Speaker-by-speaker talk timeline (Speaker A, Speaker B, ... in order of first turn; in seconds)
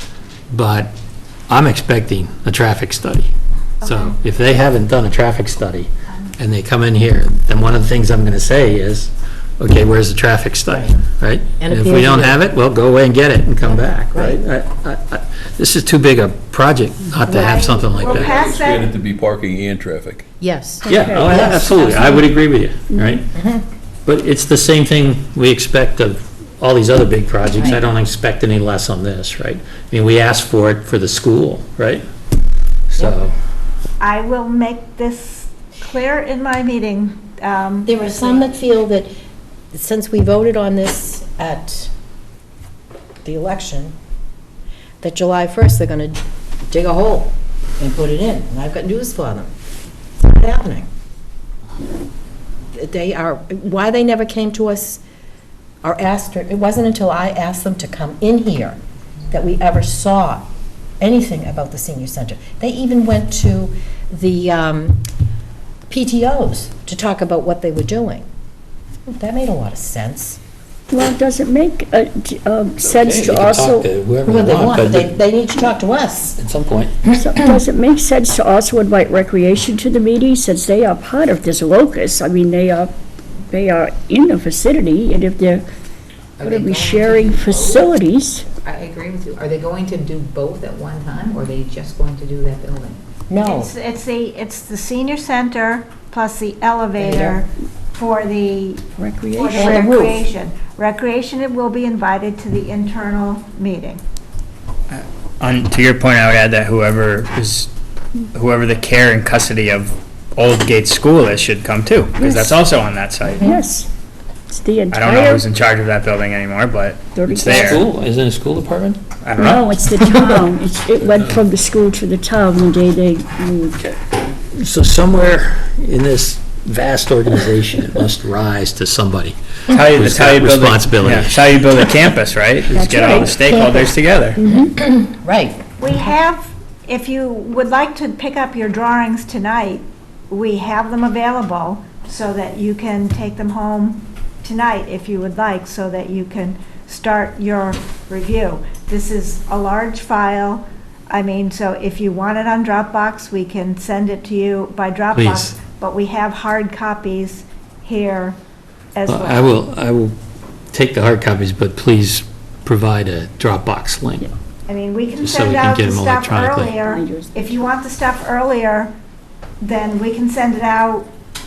Speaker A: 0.5-0.9, 1.5-3.3, 3.8-18.5, 20.9-23.2, 24.1-32.0, 32.9-33.3, 72.8-75.1, 76.4-77.1, 117.5-119.0, 123.8-131.4, 155.1-155.5, 159.1-160.2, 160.7-164.3, 165.2-166.8
Speaker B: 3.8-4.2, 17.2-18.9, 34.0-38.5, 93.4-104.0, 135.8-158.4, 158.9-159.6, 164.7-168.9, 169.6-171.1
Speaker C: 10.7-11.0, 11.6-12.4, 13.6-14.4, 20.4-22.2, 23.4-23.6, 27.6-27.8, 37.8-39.1, 39.7-41.9, 43.2-43.9, 45.0-49.5, 50.2-50.9, 52.7-55.0, 55.8-58.8, 59.3-60.5, 61.0-65.0, 65.9-68.2, 69.1-70.4, 74.2-76.4, 93.3-93.7, 97.0-97.4, 113.2-113.6, 133.5-133.8, 134.4-135.6
Speaker D: 18.1-20.2
Speaker E: 20.8-22.2, 22.9-23.2, 70.9-73.9, 77.1-82.9, 83.5-85.6, 86.4-88.5, 99.0-100.2, 112.2-112.6, 113.4-113.9, 114.5-115.4, 117.1-117.8, 119.4-123.8, 132.7-133.5, 166.8-167.6
Speaker F: 86.4-87.9, 88.6-93.0
Speaker G: 104.9-107.7, 108.3-113.5, 114.9-117.8, 119.2-120.3, 129.7-134.4